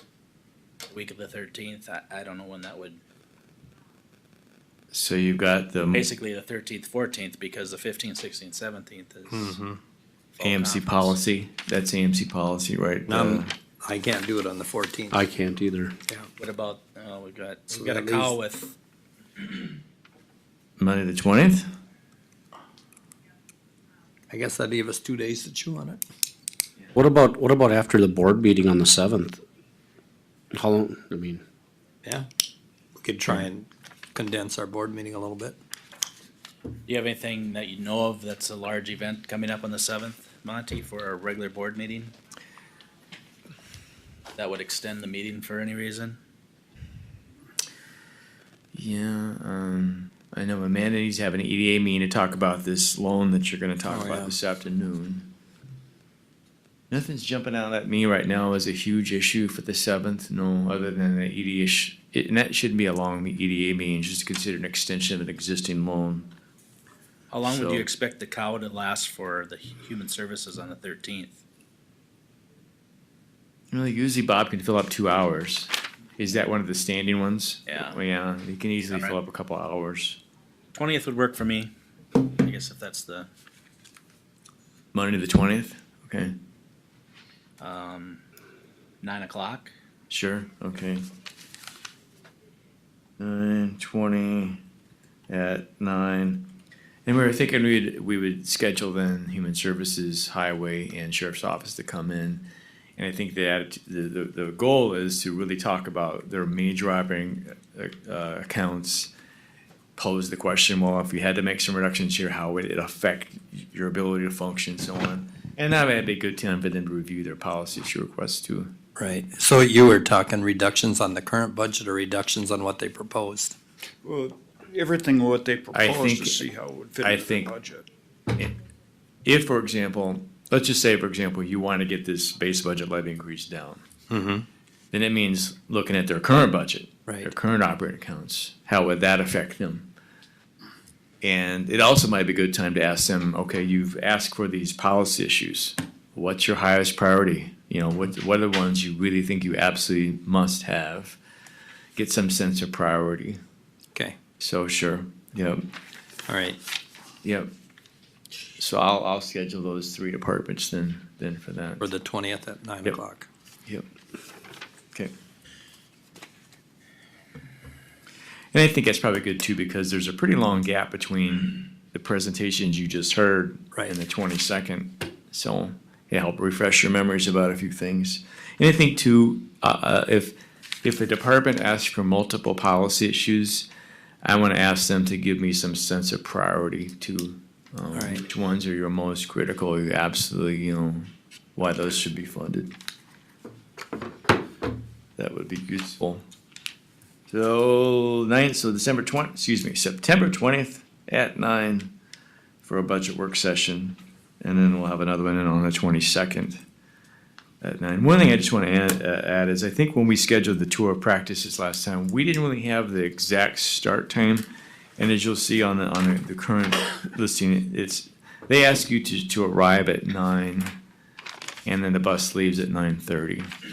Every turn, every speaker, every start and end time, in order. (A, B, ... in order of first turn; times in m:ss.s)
0:00.9-0:03.0 A
0:04.9-0:06.1 B
0:05.9-0:09.6 A
0:09.3-0:09.8 C
0:10.3-0:11.2 A
0:10.4-0:13.5 B
0:13.1-0:15.2 C
0:15.1-0:15.9 D
0:16.4-0:18.7 A
0:17.7-0:18.3 C
0:20.8-0:21.7 B
0:24.3-0:26.0 C
0:26.9-0:29.4 D
0:30.5-0:31.4 D
0:33.0-0:35.6 C
0:36.9-0:42.1 A
0:44.4-0:46.2 A
0:48.7-0:55.3 B
0:53.8-0:54.4 C
0:56.9-1:06.3 B
1:07.3-1:11.4 A
1:07.4-1:07.9 B
1:13.7-1:20.2 B
1:17.7-1:18.0 A
1:18.9-1:19.2 A
1:20.7-1:23.3 A
1:24.9-1:26.3 B
1:27.6-1:28.2 A
1:29.0-1:29.7 A
1:30.1-1:31.0 B
1:33.2-1:34.6 B
1:35.3-1:36.5 B
1:37.0-1:49.1 B
1:50.0-1:58.7 B
1:59.0-2:03.5 C
2:04.0-2:07.9 E
2:05.7-2:06.4 B
2:07.0-2:07.5 B
2:09.2-2:13.8 B
2:14.1-2:14.4 C
2:14.9-2:19.9 B
2:21.2-2:31.2 B
2:32.0-2:33.4 B
2:34.4-2:35.6 B
2:36.3-2:36.6 C
2:37.2-2:37.5 B
2:38.6-2:41.9 B
2:41.8-2:43.3 C
2:48.5-3:03.7 B
3:04.2-3:12.7 B
3:07.9-3:08.2 C
3:15.2-3:16.2 B
3:17.3-3:21.9 B
3:22.6-3:26.6 B
3:27.6-3:34.5 B
3:35.0-3:40.8 B
3:41.6-3:43.5 B